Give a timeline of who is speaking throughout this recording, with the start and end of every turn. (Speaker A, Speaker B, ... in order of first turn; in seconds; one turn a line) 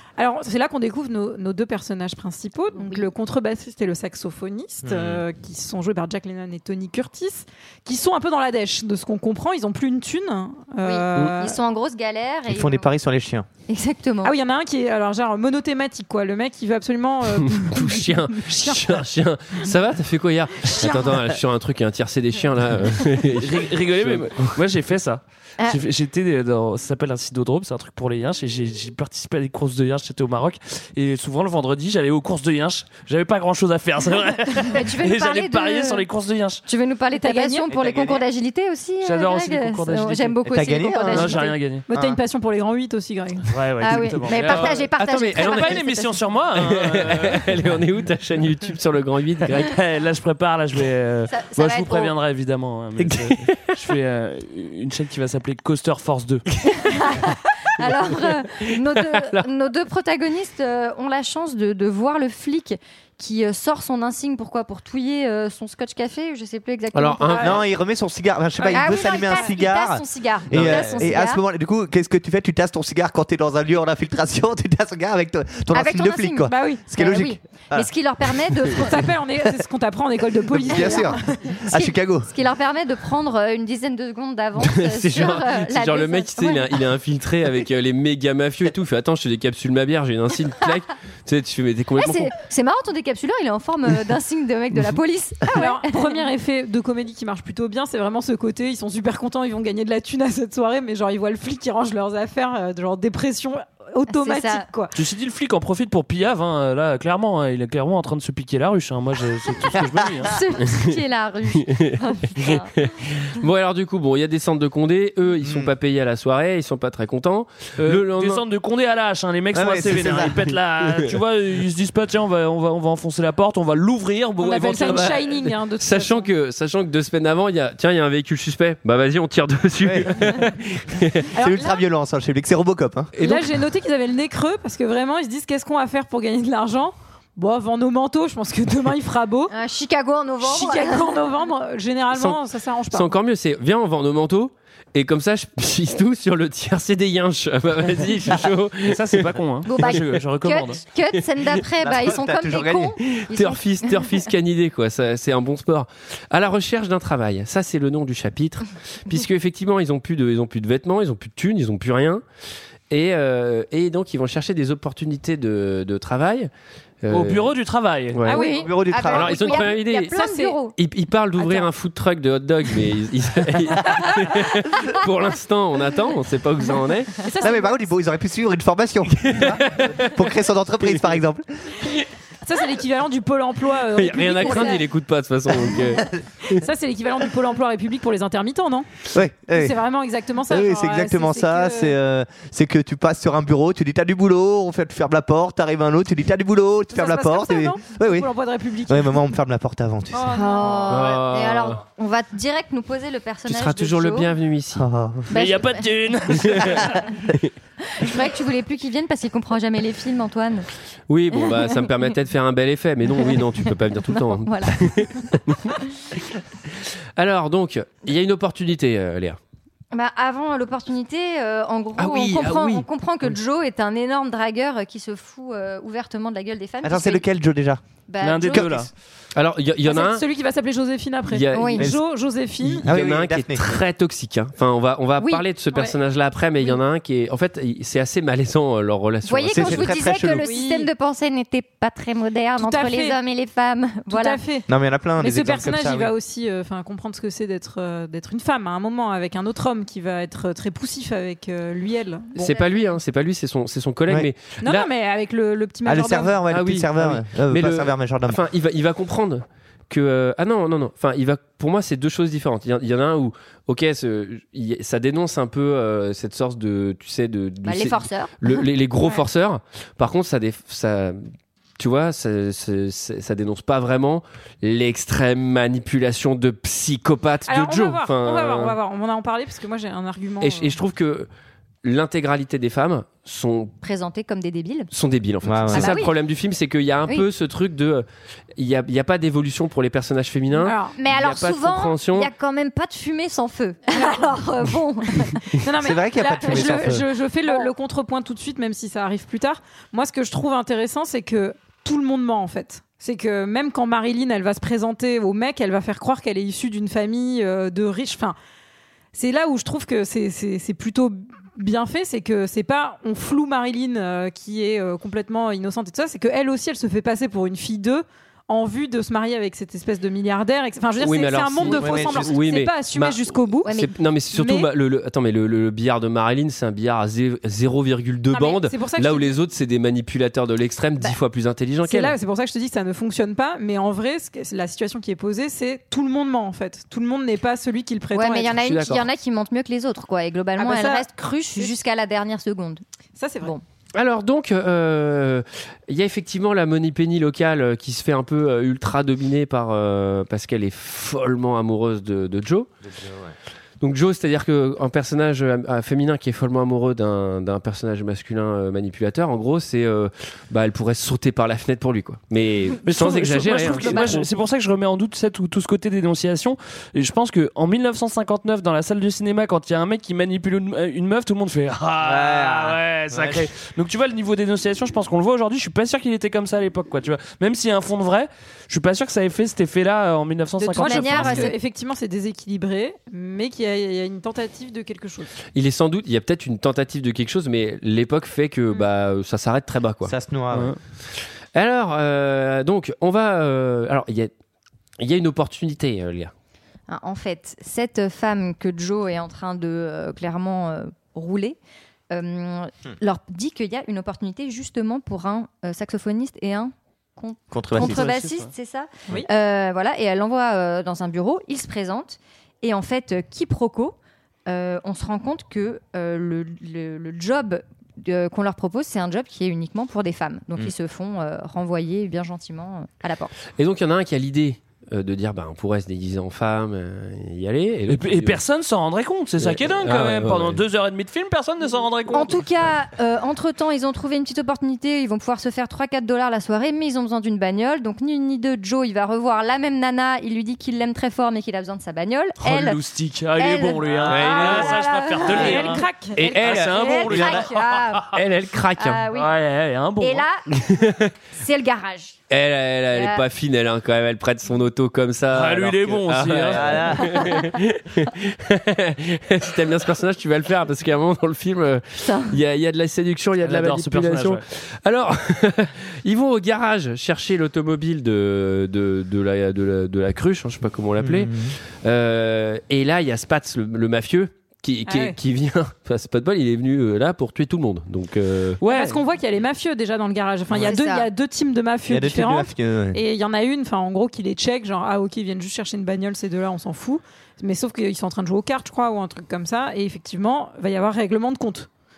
Speaker A: 0.2-11.6
Speaker B: 2.8-3.1
Speaker C: 4.8-5.2
Speaker B: 10.8-12.9
Speaker C: 12.5-13.5
Speaker B: 13.7-14.3
Speaker A: 14.2-19.0
Speaker D: 17.4-24.6
Speaker A: 20.7-21.2
Speaker E: 23.4-36.6
Speaker B: 34.7-36.0
Speaker B: 36.6-41.5
Speaker A: 37.2-37.7
Speaker C: 37.7-38.2
Speaker E: 39.0-40.4
Speaker C: 40.5-42.2
Speaker E: 41.0-41.8
Speaker A: 41.9-43.5
Speaker E: 43.5-47.5
Speaker B: 43.8-46.2
Speaker D: 44.4-45.8
Speaker D: 46.5-49.7
Speaker E: 49.6-56.4
Speaker B: 51.3-52.1
Speaker D: 53.4-53.7
Speaker B: 56.7-67.6
Speaker D: 58.6-59.5
Speaker D: 66.9-67.6
Speaker A: 67.3-67.6
Speaker C: 67.4-78.6
Speaker A: 68.6-69.5
Speaker B: 68.7-71.4
Speaker D: 70.5-71.0
Speaker B: 75.7-79.1
Speaker A: 76.5-76.9
Speaker A: 78.8-81.5
Speaker C: 80.5-82.3
Speaker B: 80.7-86.8
Speaker D: 84.6-92.3
Speaker B: 92.0-96.2
Speaker A: 95.5-104.9
Speaker B: 104.1-104.7
Speaker E: 104.9-110.3
Speaker B: 110.2-112.7
Speaker D: 111.7-118.4
Speaker C: 115.4-115.7
Speaker E: 117.8-125.2
Speaker C: 119.5-120.4
Speaker A: 124.4-126.3
Speaker D: 124.8-131.3
Speaker C: 129.8-130.2
Speaker A: 131.3-131.8
Speaker C: 131.3-133.1
Speaker D: 133.2-133.4
Speaker A: 133.2-139.5
Speaker B: 139.5-141.2
Speaker A: 140.4-143.1
Speaker D: 142.1-149.2
Speaker E: 148.8-150.8
Speaker B: 149.7-154.1
Speaker D: 149.8-150.1
Speaker C: 151.8-153.0
Speaker D: 153.0-162.2
Speaker D: 162.9-166.5
Speaker D: 167.0-167.5
Speaker E: 167.1-168.2
Speaker D: 168.1-168.4
Speaker A: 168.3-170.6
Speaker B: 168.3-170.7
Speaker C: 168.4-169.5
Speaker D: 169.1-170.2
Speaker D: 170.8-177.2
Speaker A: 171.4-171.7
Speaker A: 177.2-177.8
Speaker C: 177.4-181.4
Speaker D: 179.3-180.2
Speaker A: 182.4-184.8
Speaker D: 183.9-186.6
Speaker B: 184.2-184.7
Speaker A: 186.5-188.9
Speaker C: 189.1-189.8
Speaker A: 189.5-191.9
Speaker C: 190.5-198.3
Speaker A: 196.9-199.2
Speaker C: 198.9-200.5
Speaker A: 200.1-201.0
Speaker B: 200.3-204.3
Speaker D: 200.9-201.8
Speaker D: 203.4-204.8
Speaker C: 204.8-205.3
Speaker E: 205.3-207.0
Speaker B: 205.3-207.1
Speaker B: 207.9-210.7
Speaker D: 211.1-215.7
Speaker B: 211.3-211.8
Speaker B: 214.2-215.3
Speaker D: 217.2-219.4
Speaker B: 219.9-227.2
Speaker D: 222.0-222.8
Speaker C: 226.8-227.8
Speaker B: 228.1-228.7
Speaker E: 228.2-228.9
Speaker C: 228.4-228.9
Speaker D: 229.3-230.2
Speaker A: 229.8-232.9
Speaker D: 231.3-231.9
Speaker B: 231.5-231.9
Speaker D: 232.6-240.0
Speaker C: 232.8-233.8
Speaker B: 235.2-235.4
Speaker B: 239.2-244.4
Speaker C: 239.5-240.5
Speaker A: 240.3-240.9
Speaker A: 242.6-243.2
Speaker A: 244.1-244.7
Speaker C: 244.7-246.1
Speaker A: 245.2-252.5
Speaker D: 252.3-254.9
Speaker A: 254.6-256.4
Speaker C: 255.8-258.4
Speaker D: 256.5-278.8
Speaker B: 267.6-268.6
Speaker A: 277.5-280.8
Speaker D: 280.4-281.3
Speaker D: 281.8-283.7
Speaker B: 283.8-284.9
Speaker D: 284.9-292.3
Speaker C: 285.4-286.0
Speaker B: 285.7-286.1
Speaker A: 290.5-291.0
Speaker B: 291.0-295.4
Speaker A: 293.9-294.3
Speaker A: 295.5-308.4
Speaker C: 295.8-297.0
Speaker B: 296.5-296.9
Speaker A: 309.1-323.7
Speaker D: 321.0-332.1
Speaker C: 321.8-322.2
Speaker B: 323.6-323.9
Speaker A: 324.3-324.7
Speaker A: 328.3-329.3
Speaker A: 331.8-338.6
Speaker B: 338.1-342.8
Speaker D: 338.5-339.0
Speaker A: 340.6-341.8
Speaker A: 343.1-343.6
Speaker D: 343.9-352.7
Speaker D: 353.8-364.3
Speaker E: 362.8-381.5
Speaker C: 372.0-373.5
Speaker A: 380.6-385.3
Speaker B: 380.8-381.6
Speaker D: 385.5-390.1
Speaker C: 390.0-390.7
Speaker E: 390.5-390.8
Speaker D: 391.5-394.3
Speaker D: 395.0-396.3
Speaker B: 396.9-401.6
Speaker B: 402.1-423.3
Speaker C: 407.5-408.2
Speaker E: 407.8-408.5
Speaker D: 423.6-428.4
Speaker E: 427.9-432.4
Speaker D: 429.4-430.6
Speaker B: 432.1-442.8
Speaker E: 442.4-448.1
Speaker B: 443.4-445.7
Speaker D: 444.1-444.8
Speaker A: 445.3-446.6
Speaker D: 446.1-447.4
Speaker B: 446.7-448.2
Speaker D: 448.1-449.0
Speaker B: 448.8-449.3
Speaker E: 449.1-450.2
Speaker B: 450.0-450.5
Speaker D: 450.5-451.1
Speaker B: 451.4-452.2
Speaker D: 452.3-478.6
Speaker B: 452.9-453.2
Speaker E: 455.3-457.0
Speaker C: 456.5-457.1
Speaker B: 457.1-457.4
Speaker B: 462.0-462.4
Speaker E: 463.4-464.4
Speaker C: 471.0-471.5
Speaker A: 474.9-475.2
Speaker E: 478.6-479.0
Speaker A: 478.6-491.7
Speaker B: 480.6-481.1
Speaker C: 481.9-483.0